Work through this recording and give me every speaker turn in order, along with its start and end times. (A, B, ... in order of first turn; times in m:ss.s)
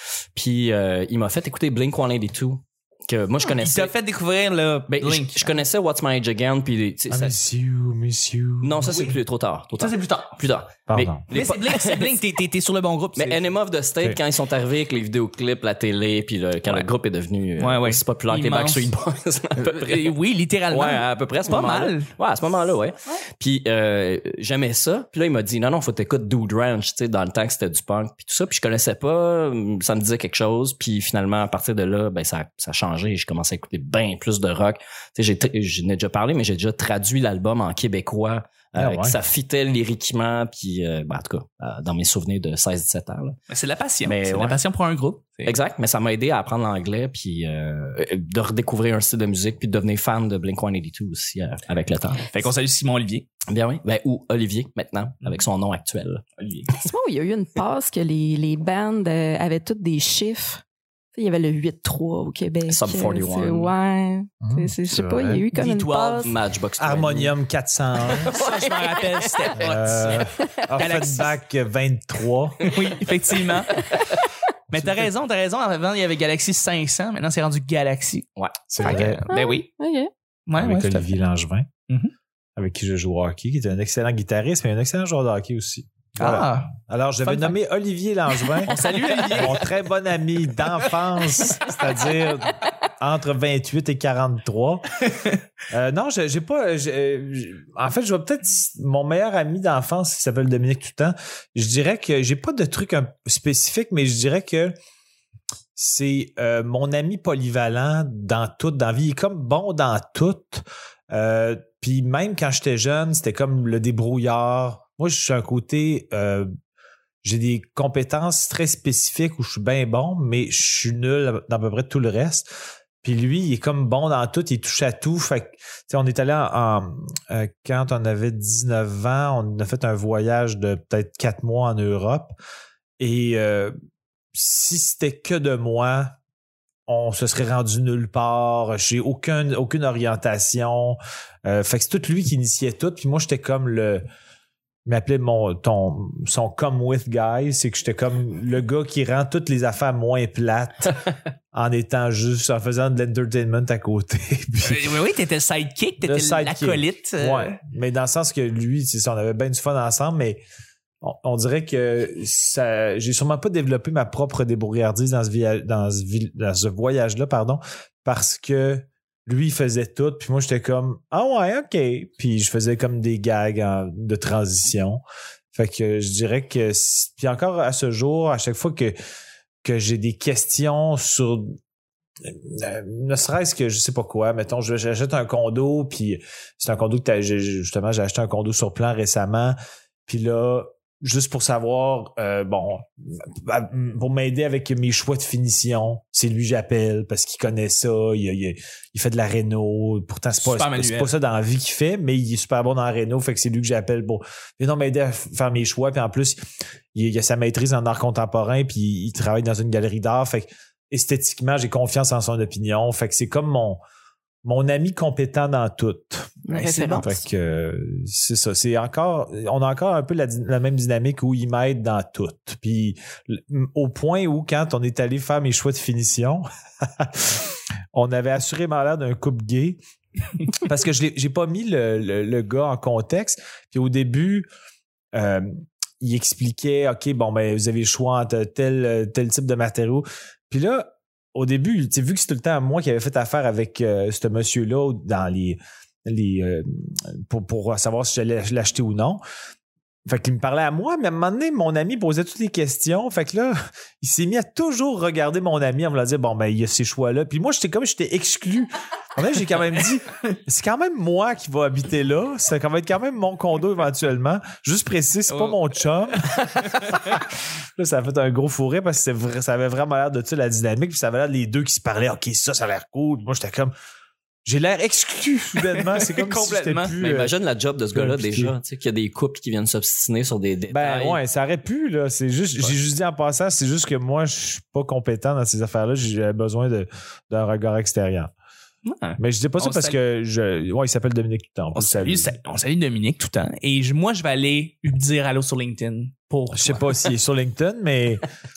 0:00.3-0:03.9 A
0:03.4-0:05.5 B
0:04.9-0:07.3 A
0:07.1-0:09.0 C
0:08.6-0:12.1 A
0:08.8-0:09.2 B
0:09.8-0:10.4 B
0:10.9-0:11.2 C
0:11.3-0:13.4 B
0:13.2-0:20.2 A
0:17.6-0:18.9 B
0:19.6-0:22.1 B
0:20.7-0:43.4 A
0:38.8-0:39.2 C
0:43.5-0:45.5 B
0:44.0-0:44.6 A
0:45.4-0:52.3 A
0:52.3-0:53.3 B
0:53.5-0:56.4 A
0:56.4-0:56.7 B
0:56.7-1:00.6 D
1:01.1-1:06.3 D
1:02.7-1:03.7 A
1:04.4-1:05.4 C
1:05.5-1:06.3 B
1:06.2-1:07.3 A
1:06.8-1:08.3 C
1:08.0-1:09.6 A
1:08.2-1:11.3 B
1:09.6-1:12.7 C
1:12.6-1:14.1 B
1:14.7-1:15.1 C
1:14.7-1:18.3 B
1:18.7-1:19.2 C
1:18.8-1:19.7 B
1:19.3-1:20.1 D
1:20.5-1:21.0 B
1:20.6-1:21.7 C
1:22.6-1:34.9 C
1:26.2-1:27.5 B
1:28.6-1:29.6 B
1:35.7-1:44.7 C
1:45.8-1:56.5 C
1:57.2-2:02.5 C
2:03.0-2:12.3 C
2:13.0-2:13.7 C
2:14.3-2:16.2 C
2:16.9-2:24.0 C
2:24.8-2:31.0 C
2:31.5-2:34.9 C
2:34.6-2:37.6 B
2:36.0-2:40.4 C
2:41.0-2:55.0 C
2:55.5-2:58.9 C
2:59.6-3:01.6 C
3:02.2-3:09.6 C
3:10.1-3:26.4 C
3:20.4-3:21.1 B
3:26.9-3:33.8 C
3:34.4-3:49.8 C
3:36.4-3:37.1 D
3:36.5-3:37.2 B
3:50.4-3:54.5 C
3:55.1-4:09.2 C
4:10.0-4:33.7 C
4:25.3-4:25.6 B
4:26.1-4:27.2 B
4:34.4-4:37.3 C
4:35.6-4:36.9 B
4:37.0-4:41.2 A
4:37.9-4:38.5 C
4:40.7-4:48.3 C
4:48.8-4:50.0 B
4:49.2-4:52.4 C
4:51.8-4:57.0 B
4:56.5-4:58.2 C